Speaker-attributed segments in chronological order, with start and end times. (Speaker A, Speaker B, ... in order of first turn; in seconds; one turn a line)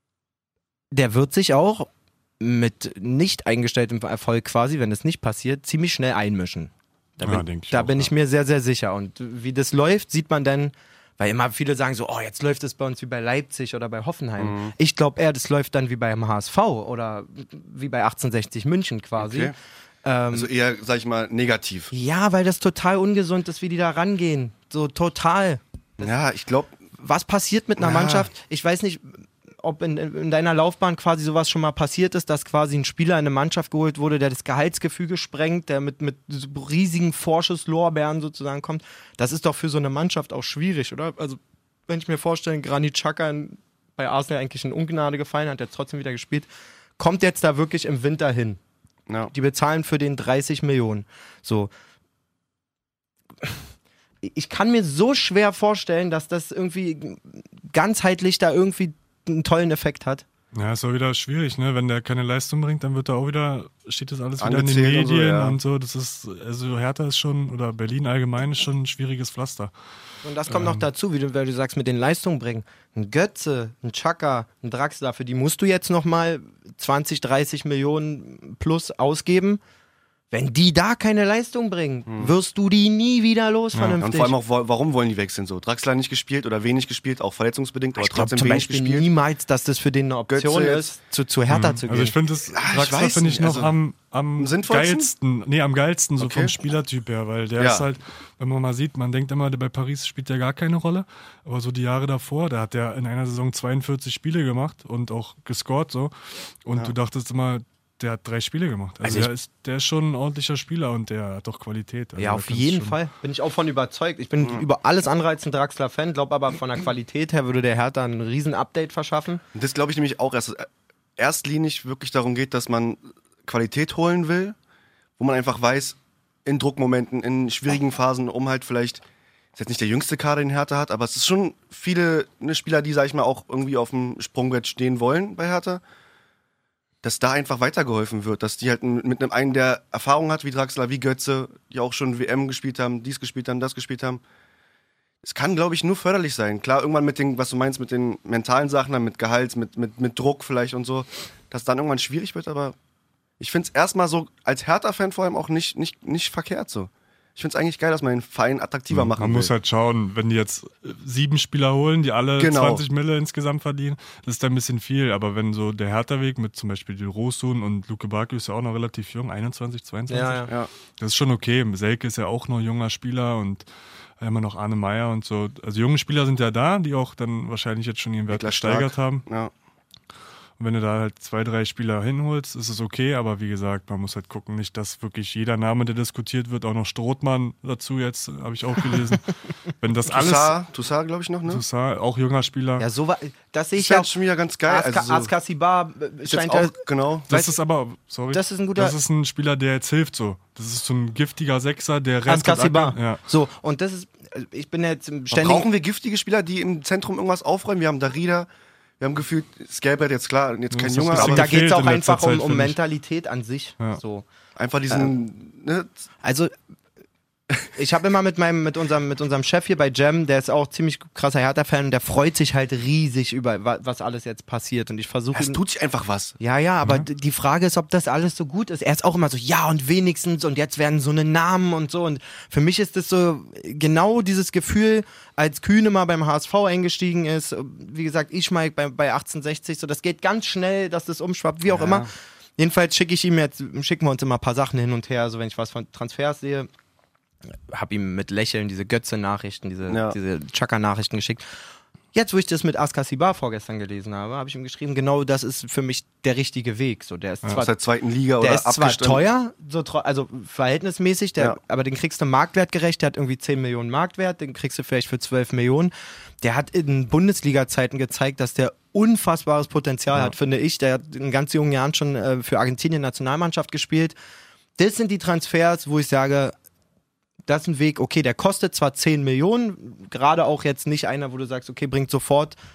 Speaker A: 0.9-1.9
Speaker A: 2.4-19.5
Speaker B: 7.2-8.1
Speaker C: 14.4-14.7
Speaker C: 19.2-19.5
Speaker A: 20.0-20.5
Speaker C: 20.3-21.9
Speaker A: 21.9-26.1
Speaker C: 26.0-26.8
Speaker A: 27.0-48.6
Speaker C: 27.8-28.3
Speaker C: 49.1-49.3
Speaker A: 49.3-51.7
Speaker A: 54.2-60.2
Speaker B: 60.5-69.7
Speaker C: 64.4-65.6
Speaker A: 70.2-79.6
Speaker B: 70.5-70.8
Speaker A: 80.3-84.3
Speaker C: 82.1-82.3
Speaker B: 83.7-84.0
Speaker C: 84.0-89.1
Speaker A: 88.0-92.1
Speaker C: 90.3-90.9
Speaker B: 91.5-113.0
Speaker C: 92.5-93.7
Speaker C: 94.4-95.1
Speaker C: 96.2-96.5
Speaker C: 97.6-97.8
Speaker A: 112.2-119.4
Speaker C: 119.5-124.5
Speaker C: 125.2-129.0
Speaker C: 129.5-135.8
Speaker C: 137.0-144.2
Speaker C: 145.2-152.8
Speaker C: 153.4-159.5
Speaker B: 158.9-173.6
Speaker C: 162.4-162.8
Speaker A: 170.1-170.5
Speaker B: 174.2-179.2
Speaker C: 178.3-179.5
Speaker B: 180.6-190.6
Speaker C: 190.1-191.6
Speaker B: 191.4-192.8
Speaker A: 192.8-194.1
Speaker C: 193.7-195.3
Speaker A: 194.7-196.8
Speaker C: 196.2-197.3
Speaker B: 197.3-203.2
Speaker A: 198.3-198.9
Speaker A: 202.2-205.7
Speaker C: 205.3-208.5
Speaker C: 209.0-211.6
Speaker B: 210.7-212.8
Speaker A: 211.1-214.2
Speaker C: 214.6-216.1
Speaker A: 216.2-216.5
Speaker A: 217.7-225.6
Speaker C: 225.3-226.4
Speaker A: 226.4-246.7
Speaker C: 241.7-242.1
Speaker A: 247.7-251.4
Speaker C: 249.9-250.2
Speaker A: 252.1-257.7
Speaker C: 257.5-259.2
Speaker A: 258.4-274.1
Speaker A: 274.8-276.5
Speaker A: 277.5-282.6